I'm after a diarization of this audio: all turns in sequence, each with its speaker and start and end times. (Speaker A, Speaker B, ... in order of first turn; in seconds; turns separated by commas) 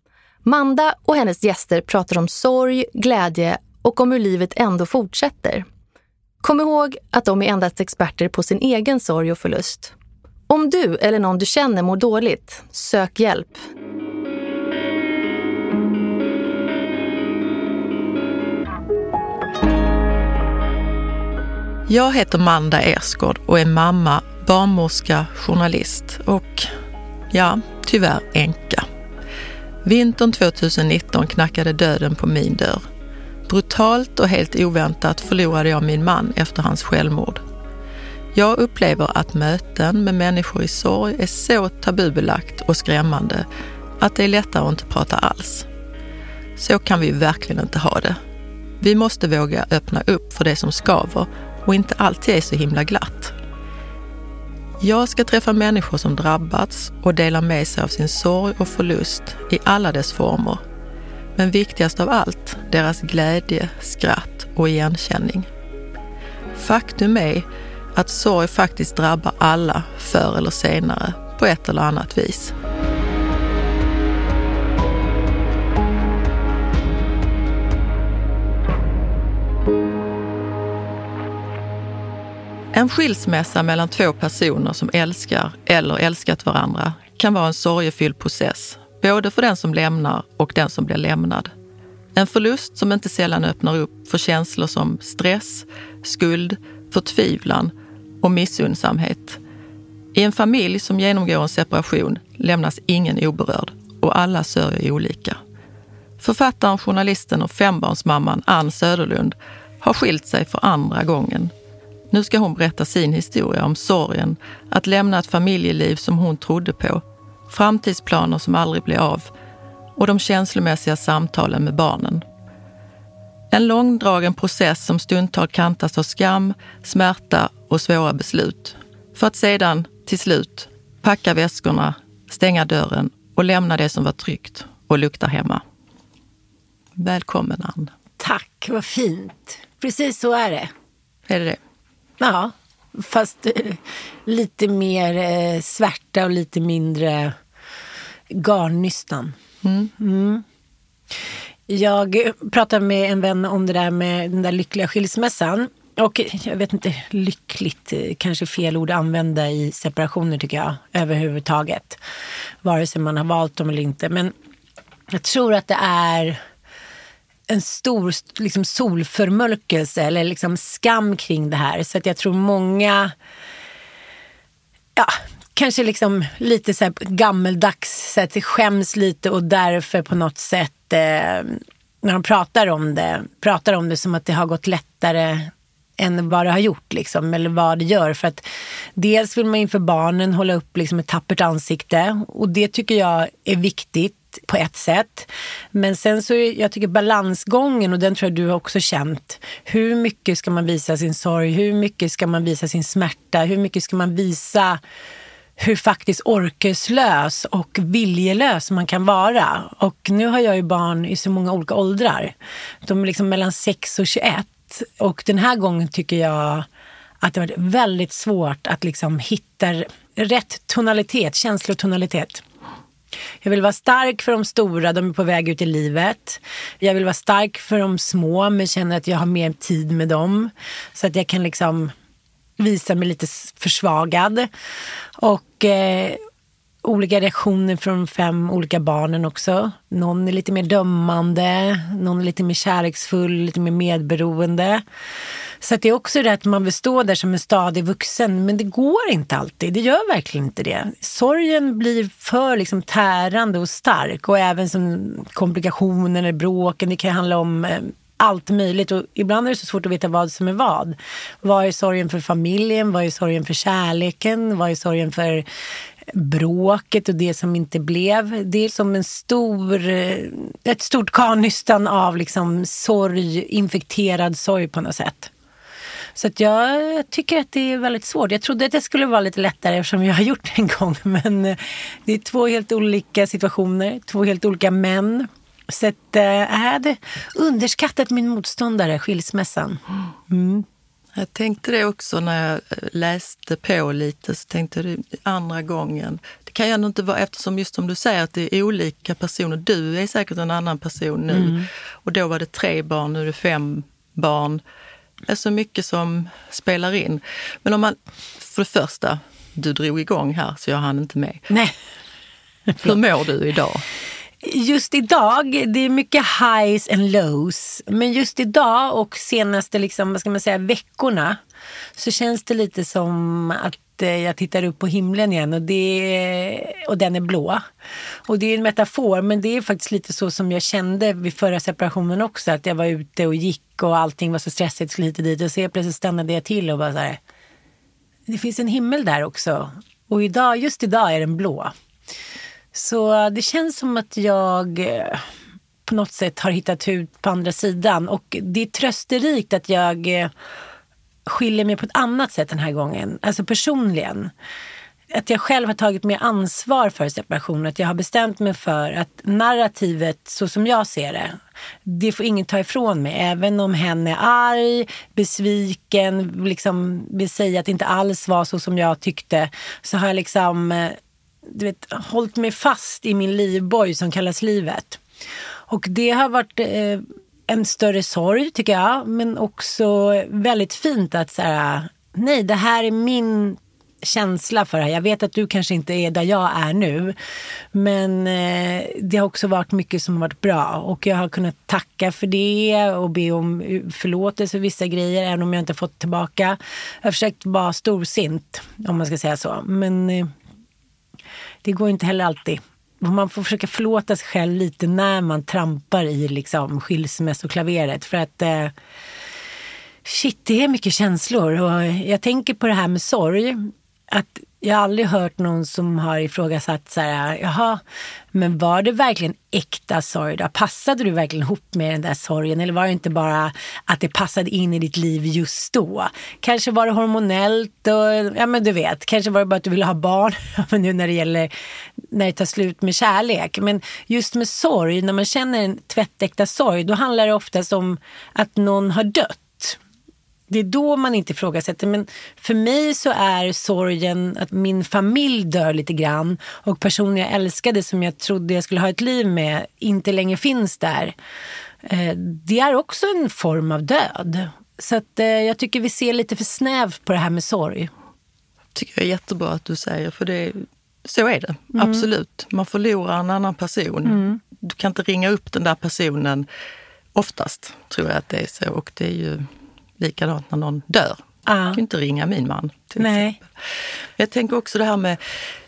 Speaker A: 0.4-5.7, Speaker A: 6.4-9.9, Speaker A: 10.5-13.6, Speaker B: 21.9-26.7, Speaker B: 27.3-28.9, Speaker B: 29.8-32.8, Speaker B: 33.5-37.4, Speaker B: 38.3-43.5, Speaker B: 44.0-45.7, Speaker B: 46.5-48.2, Speaker B: 48.8-53.3, Speaker B: 54.8-60.6, Speaker B: 61.4-65.5, Speaker B: 66.5-72.5, Speaker B: 82.7-91.5, Speaker B: 92.1-99.4, Speaker B: 100.1-105.4, Speaker B: 106.2-111.5, Speaker B: 112.1-119.3, Speaker B: 120.0-122.2, Speaker B: 123.5-135.6, Speaker B: 136.9-137.9, Speaker C: 138.2-140.7, Speaker B: 141.3-141.6, Speaker C: 142.2-147.3, Speaker C: 148.3-149.3, Speaker B: 149.6-149.9, Speaker C: 150.0-150.4, Speaker C: 151.7-162.0, Speaker C: 162.6-164.3, Speaker C: 165.1-166.4, Speaker C: 167.5-173.1, Speaker C: 174.9-188.4, Speaker C: 188.9-204.8, Speaker C: 205.6-212.3, Speaker C: 212.8-216.7, Speaker C: 217.2-222.4, Speaker C: 223.4-231.9, Speaker C: 232.6-234.5, Speaker C: 235.2-236.2, Speaker C: 236.8-244.8, Speaker C: 245.6-265.4, Speaker C: 266.1-275.3, Speaker C: 276.2-290.7, Speaker B: 291.1-304.6, Speaker C: 301.3-301.7, Speaker B: 305.3-311.5, Speaker C: 311.5-311.8, Speaker B: 312.8-313.9, Speaker C: 314.4-321.4, Speaker C: 322.0-327.6, Speaker C: 328.3-337.2, Speaker C: 338.3-341.7, Speaker C: 342.7-345.2, Speaker C: 345.9-350.3, Speaker C: 351.2-354.3, Speaker C: 355.1-375.0, Speaker C: 375.7-387.1, Speaker C: 387.7-400.3, Speaker C: 401.6-408.7, Speaker C: 410.1-417.8, Speaker C: 418.3-431.5, Speaker C: 432.1-439.8, Speaker C: 440.5-451.1, Speaker C: 451.8-457.9, Speaker B: 458.8-466.4, Speaker C: 461.7-462.1, Speaker C: 464.1-464.4, Speaker B: 467.1-469.4, Speaker B: 470.0-475.2, Speaker C: 471.5-471.8, Speaker C: 473.0-473.4